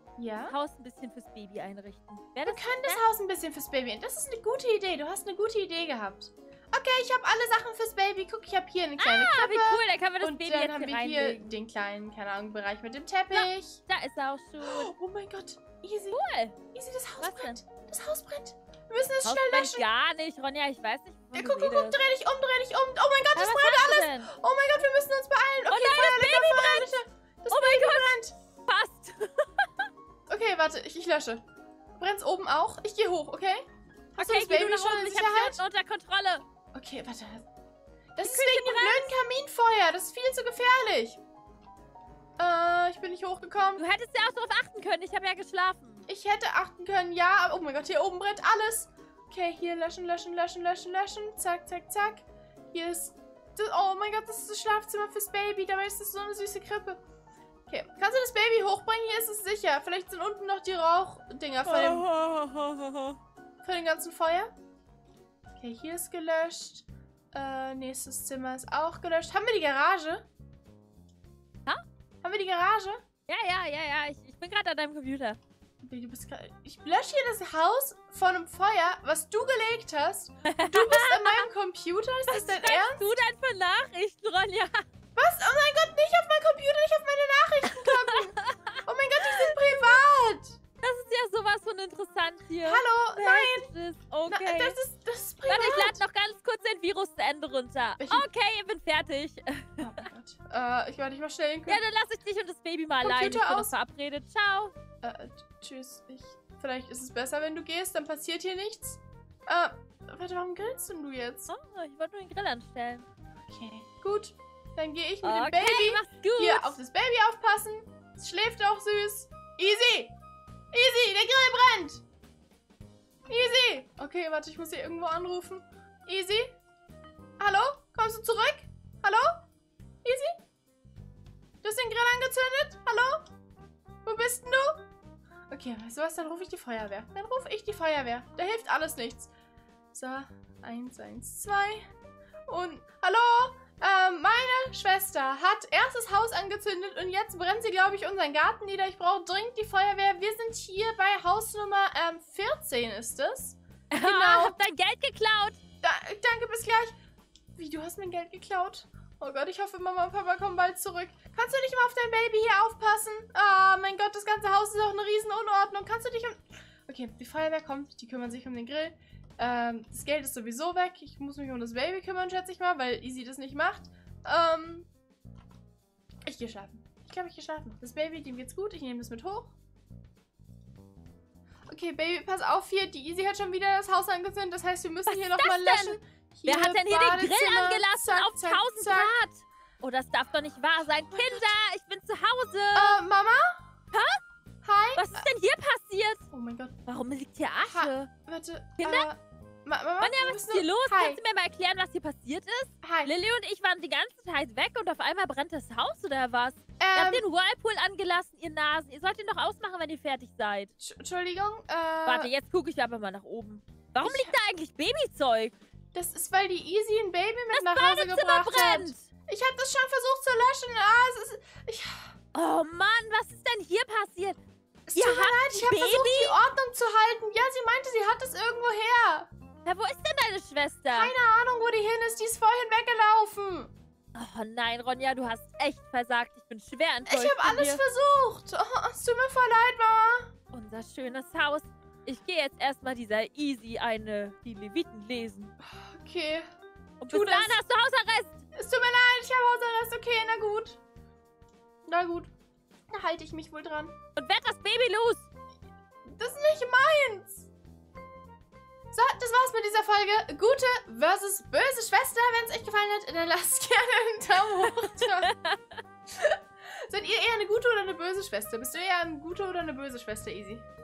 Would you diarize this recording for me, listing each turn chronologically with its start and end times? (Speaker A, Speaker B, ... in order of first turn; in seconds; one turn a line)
Speaker A: 0.2-0.5
Speaker B: 0.4-3.0
Speaker A: 2.5-13.8
Speaker B: 9.0-11.4
Speaker B: 13.3-14.9
Speaker A: 14.6-19.8
Speaker B: 16.1-16.6
Speaker B: 17.2-17.6
Speaker B: 19.2-22.0
Speaker A: 21.3-28.3
Speaker B: 23.3-24.3
Speaker B: 25.7-27.0
Speaker B: 27.5-29.9
Speaker A: 30.3-31.4
Speaker A: 32.0-35.6
Speaker B: 34.2-36.4
Speaker A: 36.7-37.5
Speaker A: 38.1-41.2
Speaker B: 38.2-39.1
Speaker A: 42.4-43.8
Speaker B: 43.8-46.1
Speaker A: 46.1-57.0
Speaker A: 57.7-62.1
Speaker B: 61.6-63.2
Speaker A: 63.6-64.5
Speaker A: 65.6-70.2
Speaker A: 72.2-73.0
Speaker B: 73.3-75.4
Speaker A: 75.8-83.2
Speaker B: 80.5-81.5
Speaker B: 82.3-84.8
Speaker A: 85.2-90.6
Speaker B: 87.7-89.6
Speaker B: 90.8-94.8
Speaker A: 92.6-93.7
Speaker A: 94.3-96.0
Speaker B: 95.5-100.1
Speaker A: 98.0-98.3
Speaker A: 99.8-101.8
Speaker B: 101.7-104.7
Speaker A: 103.0-103.7
Speaker A: 105.0-111.5
Speaker B: 111.5-113.1
Speaker A: 113.5-120.1
Speaker B: 115.2-116.8
Speaker A: 120.7-122.0
Speaker A: 123.3-126.5
Speaker A: 127.4-129.4
Speaker A: 130.0-130.4
Speaker A: 131.6-133.3
Speaker A: 134.0-134.8
Speaker A: 135.5-139.3
Speaker A: 139.9-141.9
Speaker A: 142.5-154.6
Speaker B: 153.9-155.6
Speaker A: 155.8-156.9
Speaker A: 157.6-174.9
Speaker A: 176.2-179.5
Speaker A: 181.7-189.1
Speaker B: 185.1-193.0
Speaker A: 191.1-191.5
Speaker A: 192.7-193.6
Speaker B: 193.9-194.2
Speaker A: 194.6-195.3
Speaker B: 194.9-196.2
Speaker A: 196.3-196.8
Speaker B: 196.9-198.1
Speaker A: 197.7-201.2
Speaker B: 198.8-199.1
Speaker B: 200.0-210.7
Speaker A: 202.8-203.1
Speaker A: 206.8-207.2
Speaker A: 210.8-212.3
Speaker B: 212.0-215.5
Speaker A: 214.0-214.4
Speaker A: 215.9-222.2
Speaker B: 217.5-219.0
Speaker B: 222.3-224.4
Speaker A: 224.9-229.3
Speaker B: 224.9-226.4
Speaker B: 229.6-231.1
Speaker A: 230.9-233.7
Speaker B: 234.1-237.8
Speaker A: 237.1-240.3
Speaker B: 240.5-245.5
Speaker A: 245.6-246.4
Speaker B: 247.0-248.4
Speaker A: 247.1-247.6
Speaker A: 248.5-250.8
Speaker A: 251.9-252.3
Speaker A: 252.9-253.9
Speaker B: 254.2-255.2
Speaker A: 256.0-257.5
Speaker A: 258.9-265.3
Speaker B: 264.6-265.8
Speaker A: 266.1-270.6